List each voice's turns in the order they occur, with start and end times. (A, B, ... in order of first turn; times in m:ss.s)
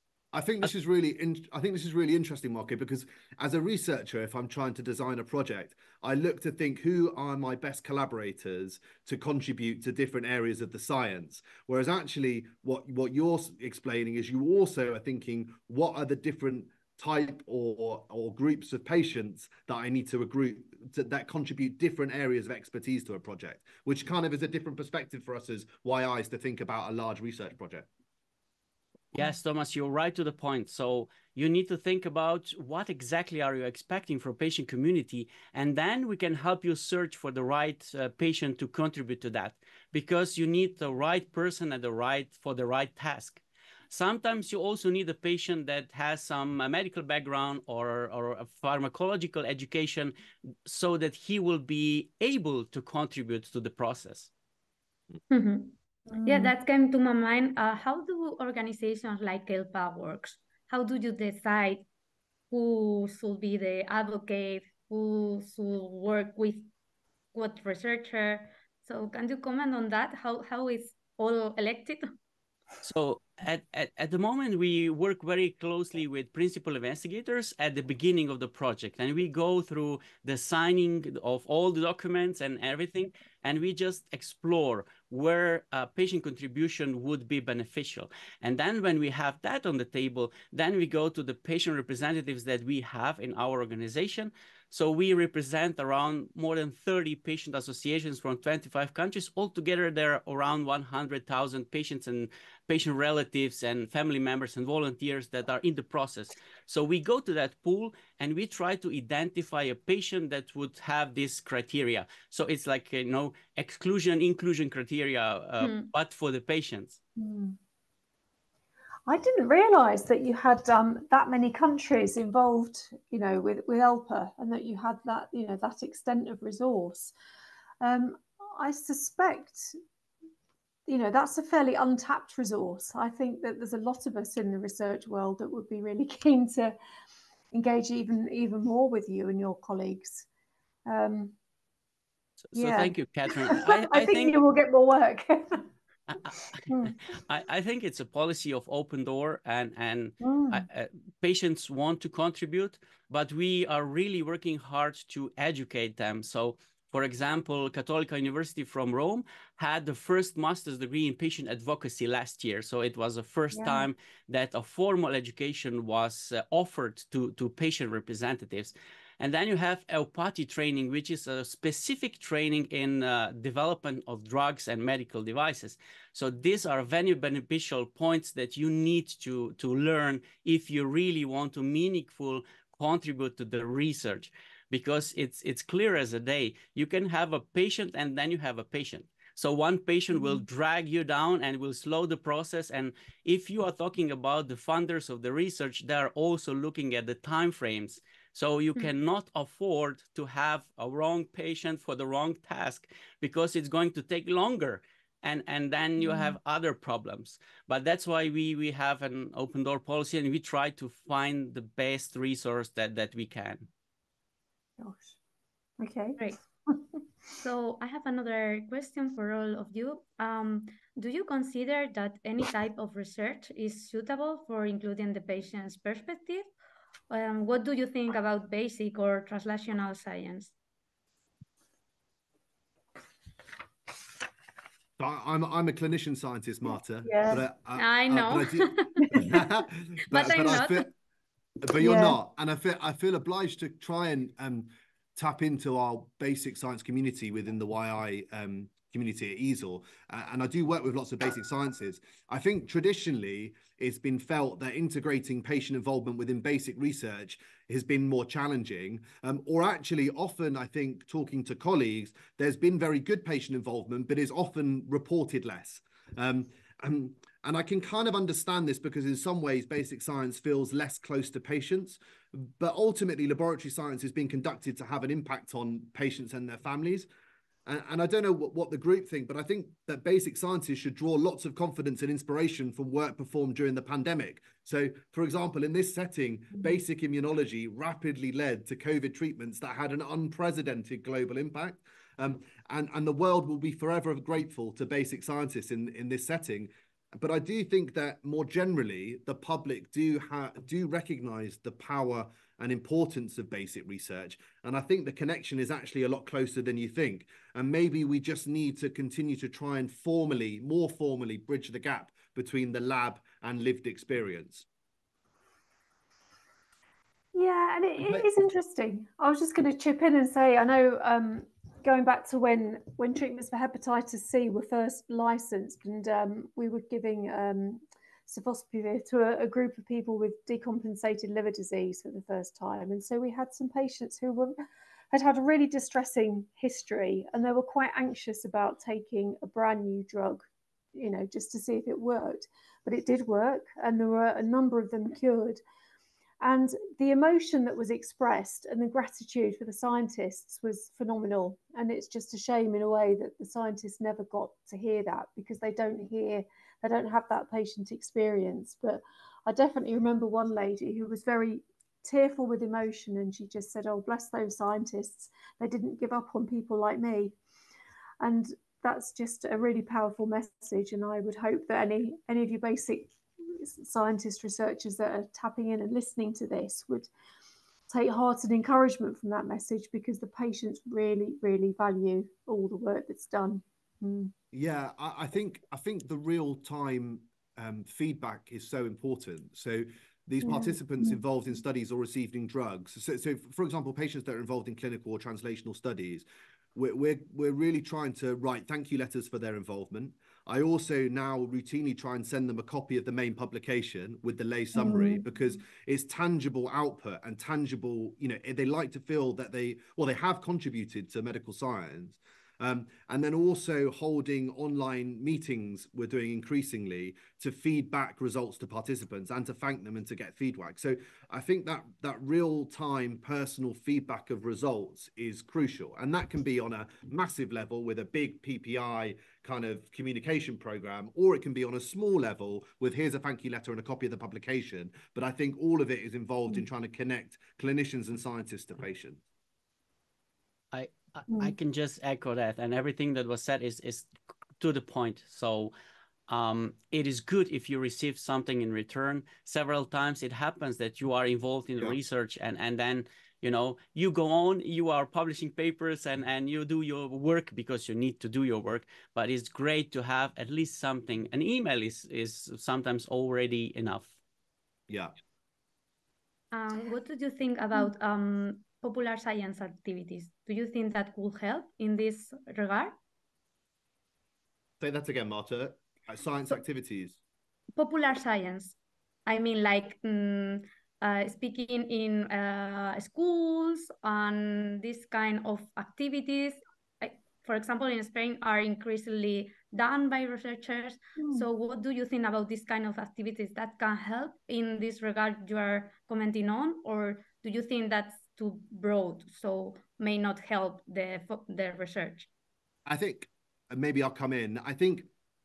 0:00.3-0:27.9 A
0:29.1-0:50.1 B
0:50.6-0:54.3 B
0:55.3-1:01.8 C
0:56.1-0:56.5 D
1:02.5-1:06.7 C
1:07.3-1:12.1 C
1:12.8-1:57.0 B
1:55.6-1:55.9 C
1:57.2-1:57.6 D
1:59.1-2:07.1 D
2:07.8-2:09.8 D
2:10.9-2:16.7 D
2:17.5-2:20.3 D
2:20.9-2:21.3 D
2:22.4-2:24.4 B
2:22.5-2:25.6 D
2:26.7-2:27.0 D
2:27.0-3:33.7 B
2:30.2-2:30.6 D
2:43.5-2:43.9 D
3:26.0-3:26.3 D
3:34.8-3:35.2 D
3:35.8-3:36.8 D
3:37.4-3:46.4 C
3:47.1-3:50.5 C
3:55.0-4:00.9 A
3:57.0-3:57.4 D
3:57.8-3:59.4 C
3:59.0-3:59.3 D
4:00.1-4:00.9 C
4:01.6-4:37.1 A
4:01.8-4:02.2 D
4:37.6-5:14.6 A
5:17.3-5:34.6 D
5:18.0-5:18.3 A
5:35.1-5:45.6 D
5:46.4-6:07.3 D
6:08.2-6:17.1 D
6:17.9-6:24.3 D
6:24.5-7:19.2 A
6:30.4-6:31.2 D
6:44.7-6:45.2 D
7:20.7-7:25.7 B
7:26.3-7:44.2 B
7:44.9-7:45.1 A
7:46.5-7:52.9 C
7:54.8-7:57.2 A
7:57.8-8:22.3 C
8:11.2-8:11.5 D
8:22.8-8:25.1 A